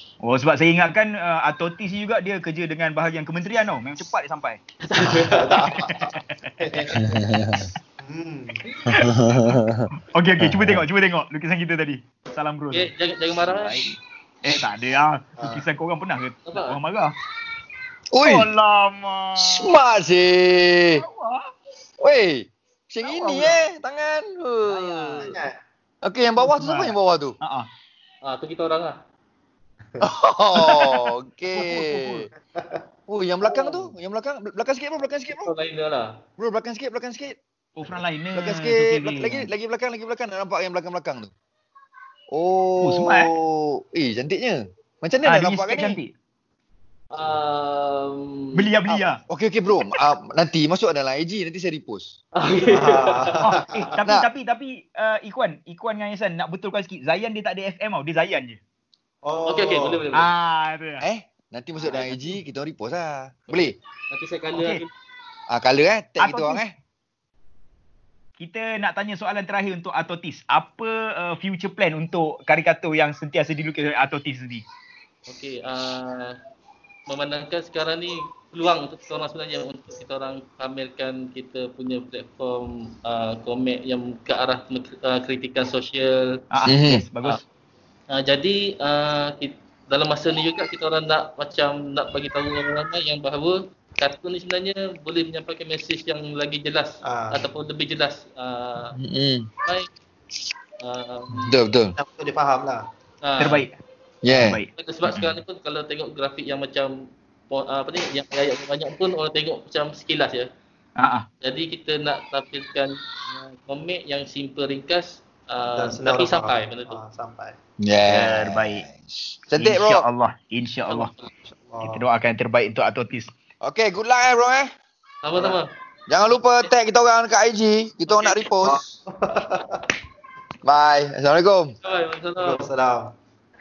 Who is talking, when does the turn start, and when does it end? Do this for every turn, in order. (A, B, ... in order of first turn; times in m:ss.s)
0:00.2-0:04.6 A
0:04.9-0:05.5 B
0:05.0-0:07.0 C
0:05.5-0:06.9 A
0:07.0-0:07.7 D
0:08.0-0:08.6 C
0:08.7-0:09.4 A
0:08.9-0:10.8 D
0:10.0-0:12.9 A
0:12.7-0:13.8 B
0:13.5-0:17.1 A
0:15.4-0:15.6 C
0:16.5-0:16.8 B
0:18.1-0:18.5 D
0:18.2-0:19.7 A
0:19.4-0:21.0 D
0:21.0-0:21.4 A
0:22.0-0:25.3 D
0:23.0-0:23.6 A
0:24.7-0:25.5 C
0:26.0-0:27.4 D
0:26.5-0:27.7 A
0:28.2-0:29.0 B
0:30.0-0:32.3 D
0:30.6-0:32.3 A
0:32.5-0:32.8 C
0:33.1-0:35.5 D
0:35.3-0:36.1 B
0:36.4-0:37.4 D
0:37.8-0:39.5 A
0:38.3-0:41.3 D
0:42.3-0:46.0 D
0:42.8-0:43.3 A
0:45.2-0:46.1 A
0:47.1-0:48.6 B
0:48.5-0:49.2 A
0:49.3-0:52.2 D
0:52.4-0:53.4 B
0:52.6-0:53.8 C
0:53.4-0:58.6 A
0:59.2-1:00.0 C
0:59.4-1:00.3 B
1:00.1-1:01.0 A
1:01.0-1:03.8 D
1:03.5-1:04.9 B
1:04.5-1:04.8 A
1:05.5-1:06.7 D
1:06.2-1:06.6 A
1:08.4-1:14.6 A
1:15.3-1:16.3 B
1:17.1-1:26.2 B
1:26.5-1:27.4 A
1:26.6-1:27.0 D
1:28.1-1:38.9 B
1:37.0-1:37.4 C
1:39.0-1:39.5 D
1:40.8-1:41.6 B
1:41.3-1:42.0 D
1:42.0-1:42.8 C
1:43.2-1:43.6 B
1:43.4-1:43.7 A
1:44.2-1:44.6 D
1:44.3-1:45.2 A
1:44.7-1:46.9 B
1:47.5-1:50.5 B
1:51.0-1:51.2 A
1:51.4-1:57.0 B
1:55.7-1:57.6 C
1:57.8-2:00.1 D
1:58.0-1:58.8 A
1:59.6-2:01.1 A
2:00.9-2:01.3 B
2:01.4-2:02.0 C
2:01.8-2:03.3 A
2:03.6-2:04.7 D
2:05.2-2:05.7 B
2:06.1-2:08.8 D
2:08.1-2:08.4 B
2:08.6-2:09.8 C
2:10.6-2:11.7 D
2:11.8-2:12.6 B
2:12.4-2:13.1 C